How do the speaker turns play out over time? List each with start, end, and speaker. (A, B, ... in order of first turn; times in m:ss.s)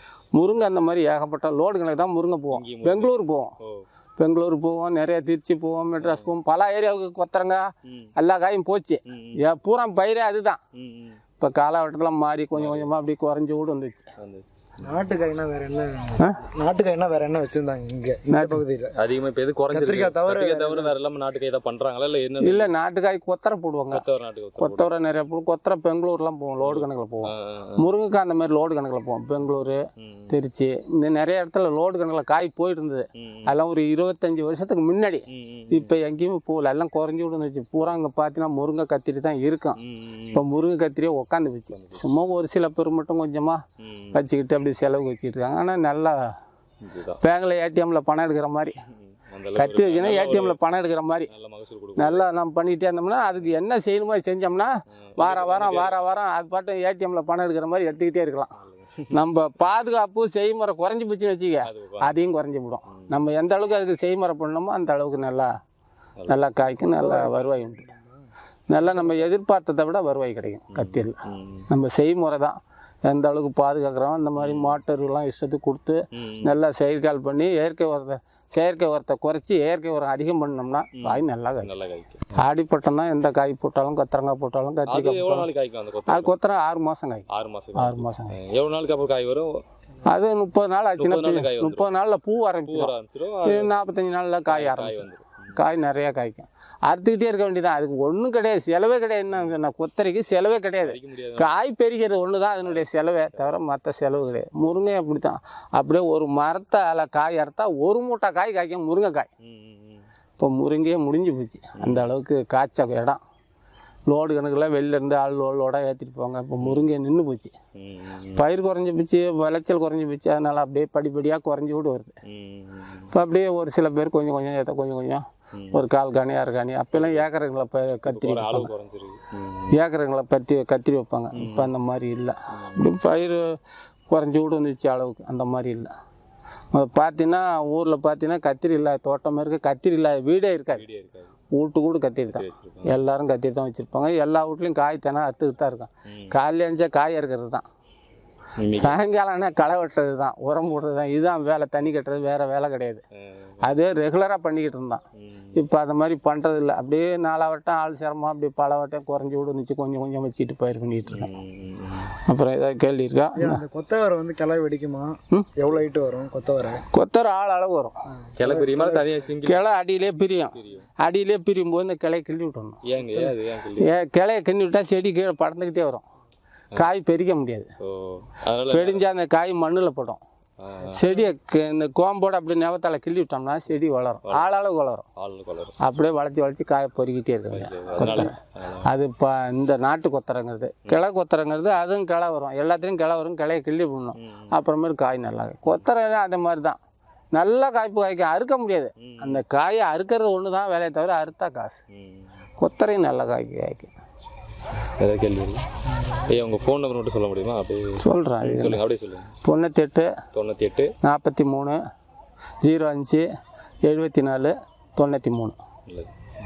0:00.3-0:03.5 A
0:02.5-0:03.1 B
0:04.2-0:10.6 A
0:06.0-0:06.3 B
0:09.1-0:09.4 B
0:10.8-0:11.2 B
0:11.4-0:14.1 A
0:12.6-0:12.9 B
0:14.2-0:14.4 B
0:14.8-0:19.0 C
0:18.3-0:18.6 A
0:19.0-0:22.7 B
0:19.7-0:20.9 C
0:22.4-0:24.1 A
0:23.9-0:24.9 B
0:24.6-0:39.8 A
0:26.6-0:27.8 B
0:30.0-0:30.4 B
0:33.2-0:33.5 B
0:35.3-0:35.9 B
0:39.8-0:40.4 B
0:40.3-0:43.6 A
0:41.7-0:42.1 B
0:43.8-0:44.2 B
0:44.1-0:46.3 A
0:46.8-0:47.2 B
0:47.2-0:48.8 A
0:48.9-0:50.6 B
0:49.6-0:51.3 A
0:51.3-0:52.2 B
0:52.0-0:58.5 A
0:55.0-0:56.0 B
0:58.6-0:59.2 B
0:59.1-1:05.5 A
1:01.7-1:02.2 B
1:02.9-1:03.2 B
1:06.2-1:06.5 B
1:06.3-1:07.9 A
1:06.9-1:08.2 C
1:08.7-1:21.7 A
1:10.7-1:11.7 B
1:14.4-1:14.8 B
1:16.2-1:16.5 B
1:21.0-1:22.4 B
1:22.4-1:25.5 A
1:24.9-1:26.4 B
1:26.1-1:28.4 A
1:27.3-1:29.6 B
1:30.1-1:49.3 A
1:31.0-1:31.9 B
1:32.7-1:33.7 B
1:34.5-1:35.6 B
1:40.8-1:41.5 B
1:42.6-1:43.5 B
1:49.4-1:50.0 B
1:50.4-1:53.2 A
1:51.8-1:52.1 B
1:54.1-1:57.5 A
1:56.6-1:56.9 B
1:57.8-1:58.4 B
1:58.4-2:02.2 A
2:02.3-2:03.1 B
2:03.1-2:08.7 A
2:05.6-2:05.8 B
2:06.9-2:07.3 B
2:08.1-2:09.8 B
2:09.7-2:13.6 A
2:11.4-2:11.7 B
2:12.6-2:12.9 B
2:14.1-2:15.9 A
2:16.7-2:20.8 A
2:20.7-2:21.3 B
2:21.5-2:27.6 A
2:22.3-2:23.0 B
2:26.1-2:26.3 B
2:28.6-2:29.0 B
2:28.8-2:33.0 A
2:33.6-2:35.0 A
2:35.2-2:35.6 B
2:35.6-2:41.3 A
2:41.1-2:42.2 B
2:42.3-2:43.6 A
2:43.4-2:46.8 C
2:46.9-2:48.0 A
2:48.3-2:49.2 C
2:48.4-2:49.6 B
2:49.4-2:52.8 A
2:50.6-2:50.9 B
2:52.8-2:53.9 B
2:53.8-2:56.0 A
2:56.8-2:57.7 A
2:57.8-2:59.0 B
2:58.7-3:00.2 A
3:00.6-3:01.0 B
3:00.9-3:05.0 A
3:04.2-3:04.5 B
3:05.2-3:05.8 B
3:05.8-3:16.8 A
3:07.5-3:08.9 B
3:14.2-3:14.5 B
3:17.4-3:21.8 A
3:19.0-3:19.4 B
3:21.9-3:22.3 B
3:22.6-3:23.9 A
3:25.0-3:29.3 B
3:28.0-3:28.8 A
3:29.4-3:30.1 A
3:30.3-3:30.9 B
3:31.0-3:31.8 A
3:32.6-3:33.3 A
3:33.8-3:35.6 A
3:35.9-3:36.1 B